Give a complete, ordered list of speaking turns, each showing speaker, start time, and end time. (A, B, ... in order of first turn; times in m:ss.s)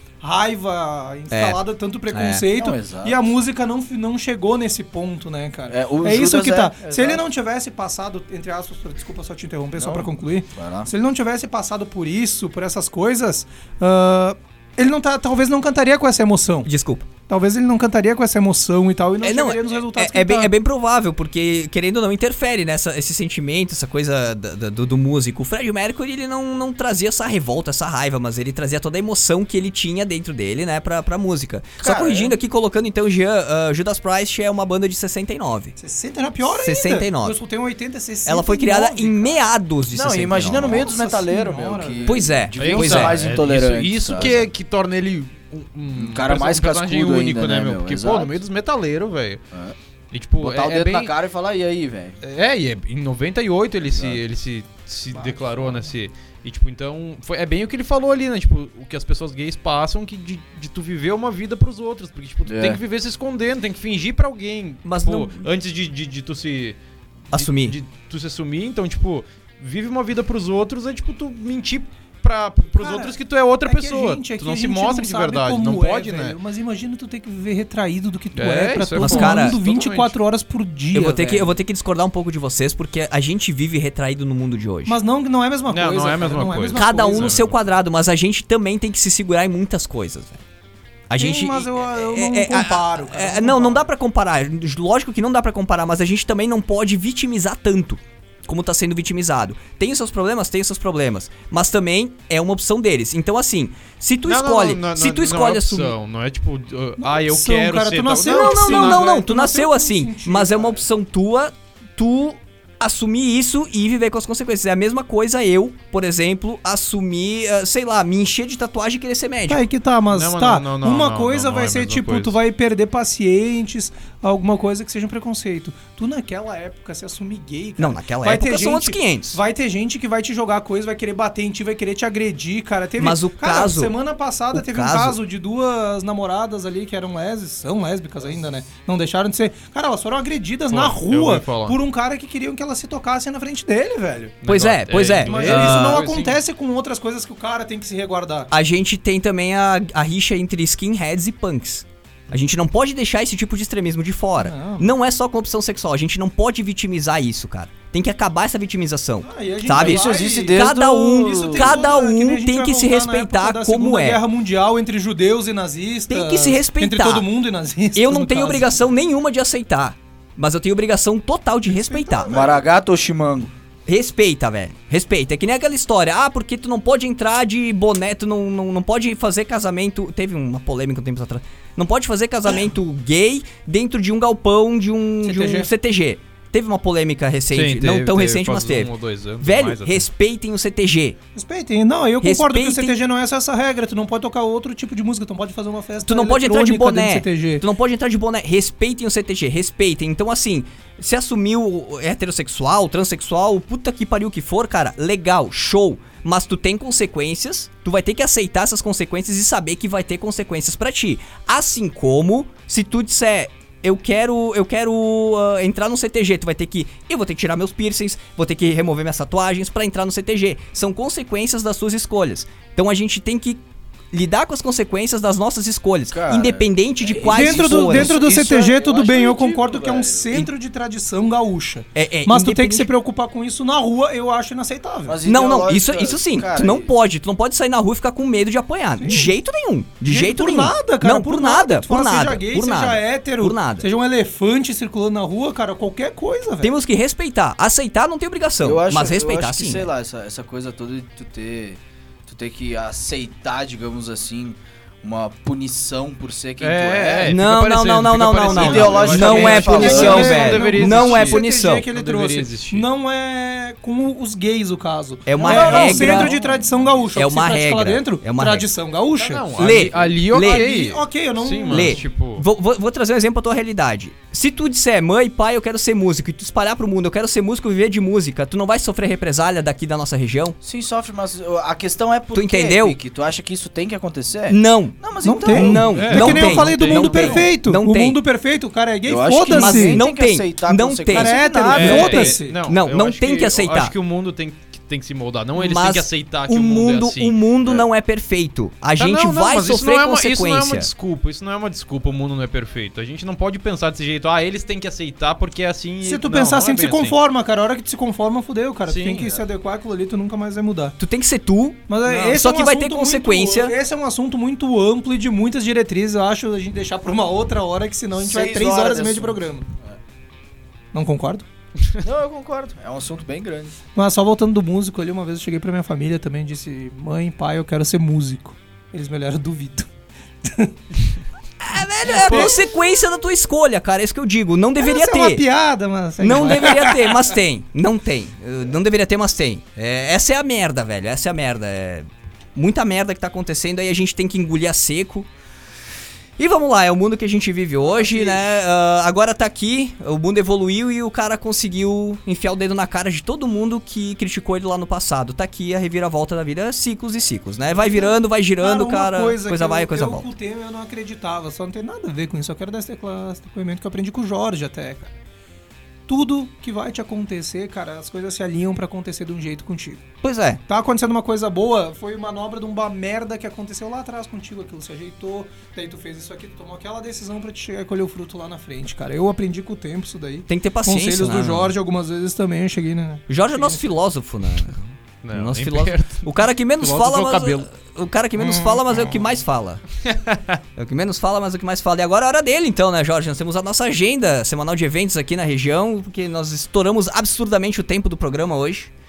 0:00.2-0:16.7 A
0:01.3-0:02.4 B
0:02.5-0:03.2 C
0:05.7-0:07.2 C
0:09.7-0:10.9 C
0:16.6-0:17.1 B
0:17.3-0:20.5 A
0:19.2-0:35.8 B
0:31.8-0:32.3 C
0:35.8-0:39.4 A
0:36.5-0:37.4 B
0:38.2-0:40.9 B
0:39.9-0:44.5 C
0:40.5-0:42.3 A
0:42.0-0:43.2 B
0:42.6-0:49.4 D
0:45.9-0:48.4 C
0:50.1-0:51.1 D
0:50.4-0:52.2 C
0:52.2-1:06.8 D
0:53.8-0:54.2 C
0:55.1-0:55.9 A
1:02.4-1:02.8 C
1:04.8-1:05.5 B
1:07.3-1:07.8 B
1:07.3-1:16.4 D
1:12.8-1:21.5 A
1:18.3-1:20.1 D
1:19.0-1:19.6 B
1:20.9-1:25.0 B
1:24.8-1:27.4 A
1:25.7-1:27.5 D
1:26.7-1:30.4 B
1:31.1-1:45.9 B
1:31.2-1:33.9 A
1:44.2-1:49.1 D
1:47.0-1:50.8 A
1:48.3-1:59.6 B
1:59.5-2:24.4 A
2:00.1-2:02.3 D
2:07.8-2:09.4 B
2:13.0-2:13.9 B
2:14.5-2:15.2 B
2:20.7-2:21.8 D
2:24.4-2:26.4 D
2:24.4-2:26.0 B
2:25.2-2:28.5 A
2:28.5-2:44.2 B
2:34.4-2:34.9 A
2:39.2-2:48.8 A
2:39.7-2:41.9 C
2:46.1-2:47.3 B
2:47.9-2:52.4 B
2:51.7-2:52.7 A
2:52.3-2:53.5 C
2:53.9-3:11.2 B
3:05.2-3:05.7 A
3:07.5-3:10.0 D
3:11.3-3:17.6 A
3:12.2-3:13.0 B
3:16.0-3:48.2 B
3:46.1-3:50.3 C
3:47.2-3:55.2 A
3:51.9-3:52.9 B
3:55.0-3:56.9 C
3:55.2-4:03.8 B
3:59.0-3:59.3 A
4:00.0-4:06.7 A
4:06.6-4:09.9 B
4:08.6-4:17.4 C
4:16.6-4:22.8 D
4:17.2-4:21.8 B
4:18.4-4:20.5 C
4:19.2-4:32.0 A
4:25.2-4:26.3 B
4:25.4-4:26.5 C
4:25.6-4:27.0 D
4:27.1-4:28.7 B
4:29.2-4:32.4 D
4:29.6-4:30.7 B
4:31.7-4:40.6 B
4:40.6-4:46.1 C
4:42.3-4:43.0 B
4:44.5-4:48.2 B
4:45.2-4:50.0 A
4:45.9-4:47.5 D
4:49.0-4:52.3 C
4:49.5-4:53.9 B
4:51.1-4:52.6 A
4:51.7-4:57.4 D
4:55.6-5:00.9 B
4:59.0-5:07.2 D
5:06.0-5:11.0 A
5:08.8-5:09.4 D
5:11.0-5:13.8 B
5:11.9-5:19.6 A
5:18.2-5:20.0 C
5:20.9-5:21.4 A
5:22.0-5:23.8 C
5:23.9-5:29.9 A
5:30.4-5:30.7 A
5:31.6-5:35.4 B
5:32.0-5:32.6 A
5:32.1-5:32.5 D
5:34.8-5:37.3 A
5:36.2-5:45.3 B
5:46.4-6:00.3 B
5:47.9-5:48.4 A
5:57.7-6:05.1 A
6:06.1-6:10.0 A
6:10.2-6:10.6 B
6:10.7-6:23.8 A
6:20.5-6:21.7 B
6:23.3-6:29.8 B
6:25.2-6:27.7 D
6:28.4-6:29.2 A
6:30.1-6:30.6 D
6:30.8-6:38.9 B